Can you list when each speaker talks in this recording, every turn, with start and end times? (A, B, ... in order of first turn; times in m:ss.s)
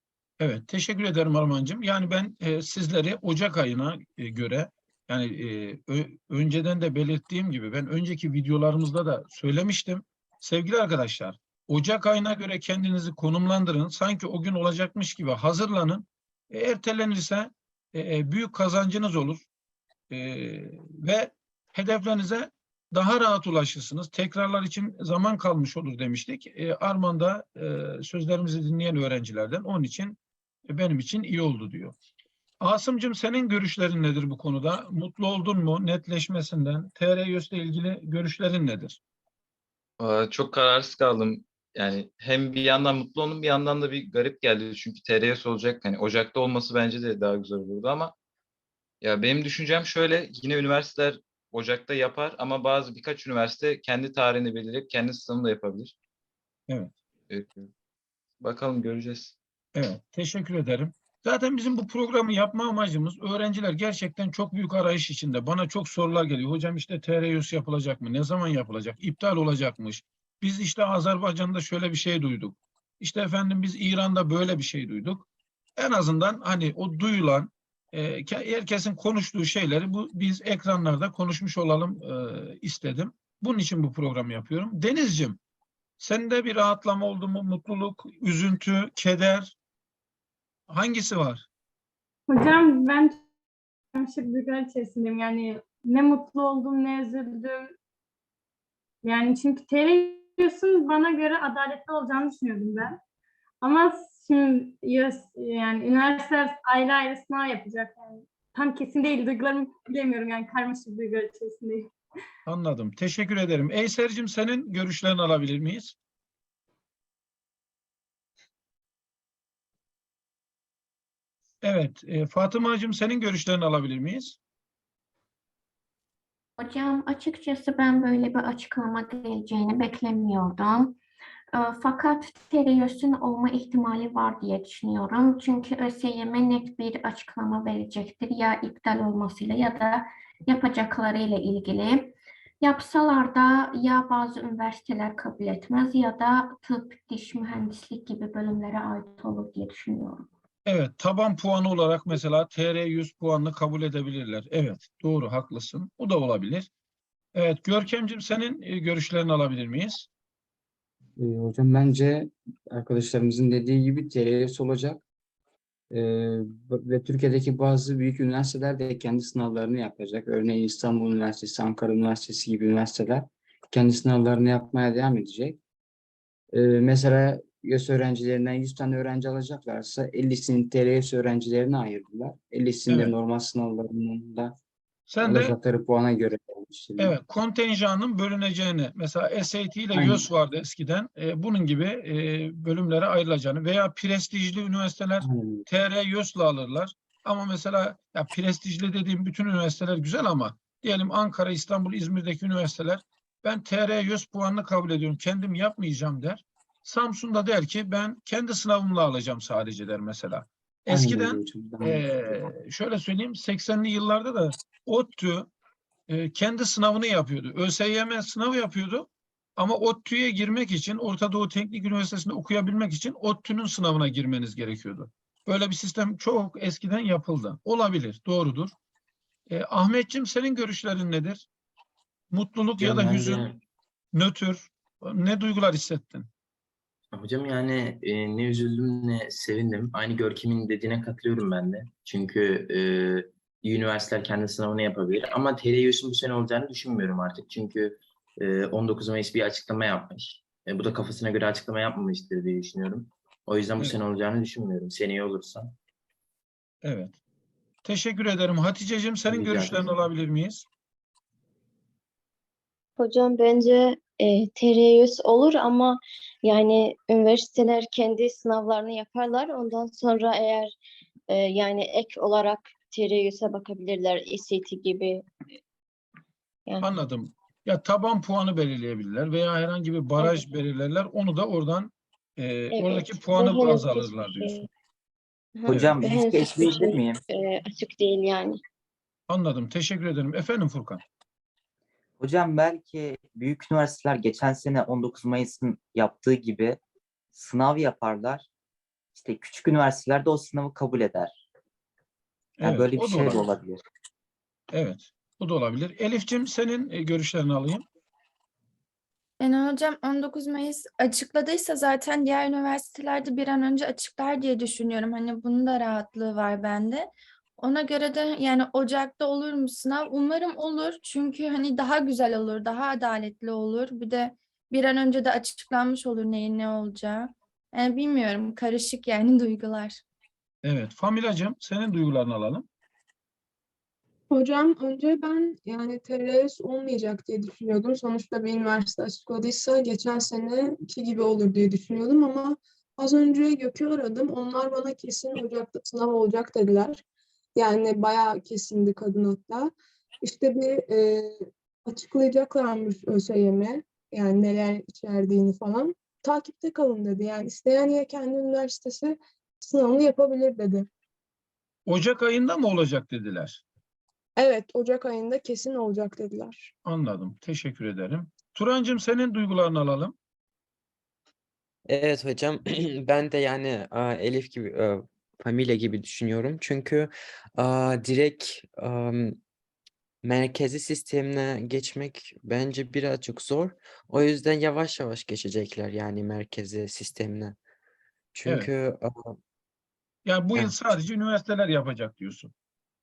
0:00.4-0:19.4 A
0:20.1-0:32.0 A
0:32.6-0:39.0 A
0:40.0-0:48.1 B
0:49.0-0:55.9 B
0:57.3-0:57.7 B
0:58.4-0:59.4 B
0:59.8-1:15.2 A
1:15.8-1:25.4 A
1:26.0-1:29.6 A
1:30.7-1:31.5 A
1:32.3-1:33.3 C
1:34.0-1:37.8 C
1:39.0-1:43.0 C
1:43.6-1:51.9 C
1:52.5-1:56.0 A
2:01.6-2:04.4 A
2:06.6-2:11.0 D
2:11.5-2:30.3 D
2:30.7-2:36.7 A
2:37.3-2:40.1 A
2:41.2-2:45.0 E
2:45.9-2:55.6 E
2:56.5-3:04.5 E
3:02.9-3:03.1 A
3:05.1-3:05.6 A
3:05.2-3:07.2 E
3:07.0-3:35.5 A
3:09.9-3:10.2 E
3:15.2-3:15.7 E
3:30.9-3:32.4 E
3:36.1-3:48.7 A
3:49.5-3:51.4 A
3:52.3-3:53.5 A
3:52.8-3:53.6 F
3:54.1-3:56.3 A
3:57.1-4:15.8 F
4:16.8-4:17.2 A
4:17.8-4:20.7 A
4:19.3-4:20.0 F
4:23.0-4:30.7 G
4:31.3-4:35.3 G
4:36.8-4:44.6 A
4:40.2-4:40.5 G
4:42.7-4:44.7 G
4:45.6-4:48.6 G
4:45.7-4:47.2 H
4:45.7-4:46.0 A
4:49.3-4:51.0 A
4:52.2-4:56.8 H
4:57.3-4:58.5 H
4:59.2-5:01.4 H
5:02.6-5:03.5 A
5:02.6-5:03.8 H
5:04.7-5:07.8 A
5:09.4-5:30.0 I
5:30.6-5:32.7 A
5:34.3-5:47.0 J
5:47.6-6:00.9 J
6:01.9-6:03.6 A
6:04.4-6:06.7 J
6:06.8-6:10.2 A
6:11.9-6:19.4 K
6:20.2-6:27.6 K
6:28.3-6:29.4 K
6:30.3-6:32.5 A